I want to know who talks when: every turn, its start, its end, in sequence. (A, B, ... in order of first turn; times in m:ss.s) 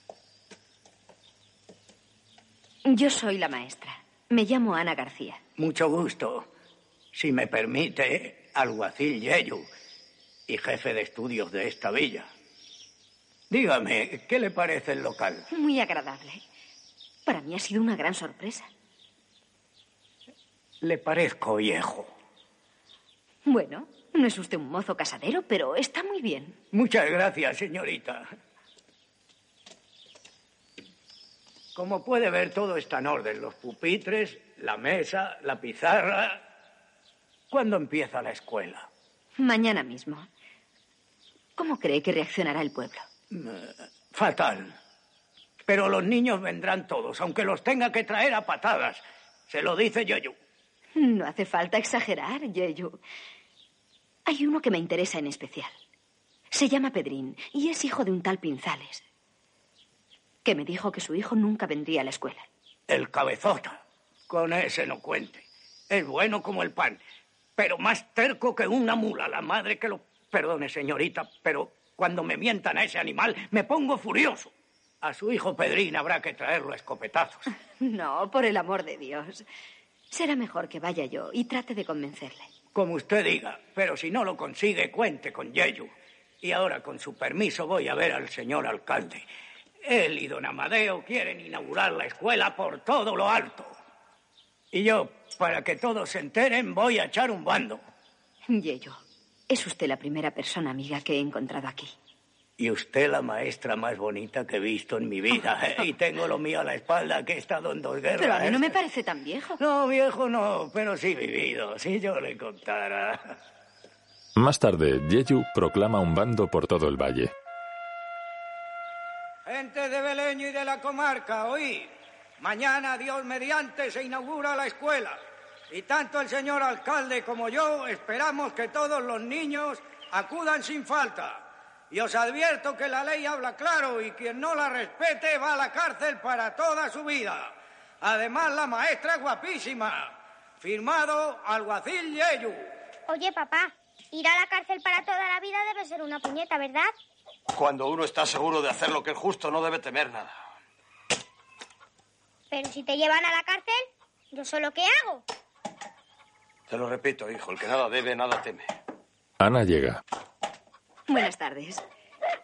0:02.8-0:05.4 A
0:05.6-0:06.5 B
0:07.1-0:09.7 B
0:10.5-0:12.3 B
0:13.5-0:15.5 B
0:15.5-0:16.4 A
0:17.2-0:18.7 A
0:20.8-0:22.1 B
0:23.4-0:26.6 A
0:26.7-0:28.3 B
0:31.7-0:36.4 B
0:37.5-0:38.9 B
0:39.4-0:40.3 A
0:41.6-0:43.0 A
0:43.3-0:44.8 B
0:45.7-0:50.3 B
0:51.0-0:53.0 A
0:54.2-0:55.7 A
0:56.5-0:59.0 A
1:00.4-1:02.4 A
1:02.9-1:07.0 B
1:07.6-1:17.4 B
1:17.8-1:19.4 A
1:20.1-1:22.5 A
1:22.7-1:25.9 B
1:26.4-1:29.2 B
1:29.8-1:33.8 B
1:34.7-1:37.8 B
1:38.5-1:41.9 A
1:42.6-1:48.7 B
1:48.2-1:49.6 A
1:49.6-1:53.4 B
1:54.4-1:57.3 C
1:59.4-2:22.7 B
2:23.1-2:26.9 D
2:27.5-2:30.3 E
2:32.5-2:35.2 D
2:36.7-2:38.7 E
2:39.4-2:40.0 C
2:41.1-2:41.8 A